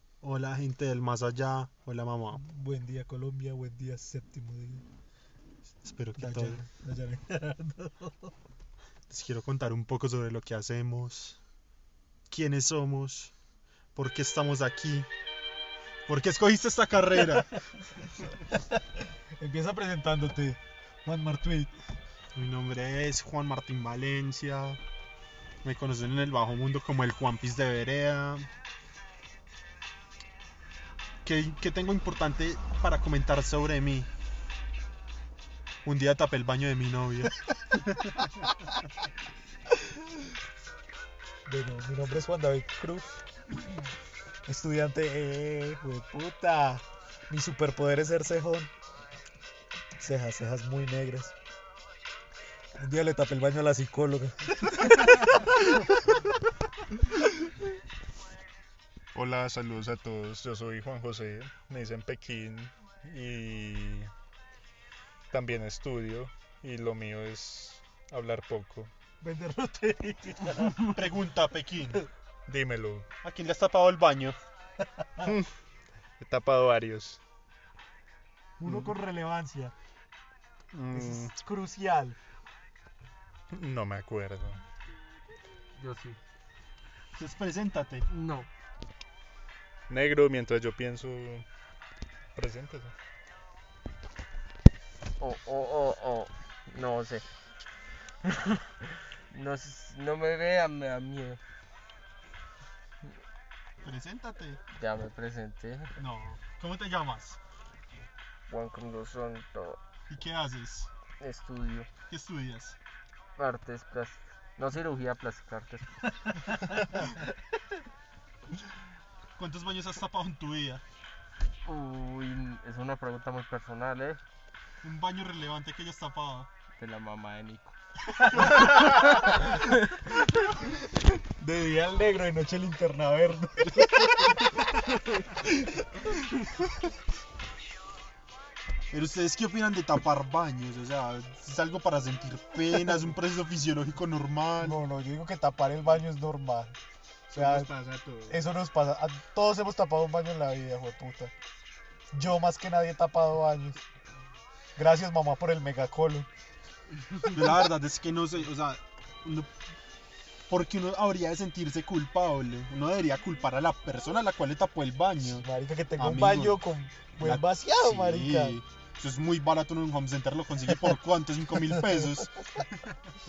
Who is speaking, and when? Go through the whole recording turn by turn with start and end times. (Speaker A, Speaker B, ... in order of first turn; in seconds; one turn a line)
Speaker A: 0.2-2.4
Speaker B: 2.3-4.8
Speaker A: 5.8-6.7
Speaker B: 6.2-8.3
Speaker A: 9.1-11.4
Speaker A: 12.3-13.3
Speaker A: 13.9-15.1
Speaker A: 16.1-17.6
Speaker B: 19.4-21.7
Speaker A: 22.3-24.8
Speaker A: 25.6-28.5
Speaker A: 31.2-34.1
Speaker A: 35.8-38.2
Speaker B: 41.5-43.2
Speaker B: 44.5-48.7
Speaker B: 50.0-51.3
Speaker B: 52.8-55.8
Speaker C: 59.1-64.1
Speaker C: 65.3-68.9
Speaker B: 69.2-70.9
Speaker A: 70.9-72.0
Speaker C: 72.5-73.1
Speaker A: 73.2-74.4
Speaker C: 75.2-75.5
Speaker C: 76.2-77.2
Speaker B: 78.6-79.7
Speaker C: 80.7-81.3
Speaker B: 80.9-82.2
Speaker C: 83.5-84.6
Speaker D: 85.8-86.2
Speaker A: 87.1-88.1
Speaker D: 88.1-88.5
Speaker C: 89.9-91.5
Speaker C: 92.3-93.0
Speaker D: 95.2-97.2
Speaker D: 98.3-98.6
Speaker D: 99.3-101.4
Speaker A: 103.8-104.6
Speaker D: 104.7-105.9
Speaker A: 106.0-107.4
Speaker D: 108.5-109.8
Speaker A: 110.1-110.9
Speaker D: 111.2-111.9
Speaker A: 112.1-112.8
Speaker D: 113.4-116.4
Speaker A: 119.4-120.8
Speaker D: 121.6-124.2
Speaker A: 124.8-126.5
Speaker D: 126.8-127.8
Speaker B: 128.3-129.5
Speaker D: 128.4-129.7
Speaker B: 131.3-134.5
Speaker A: 138.9-144.8
Speaker B: 144.6-146.8
Speaker A: 147.3-148.3
Speaker B: 147.3-147.7
Speaker B: 148.3-151.3
Speaker B: 152.1-153.8
Speaker B: 154.8-156.3
Speaker A: 157.2-159.5
Speaker A: 160.5-166.6
Speaker B: 165.2-168.6
Speaker A: 167.2-172.7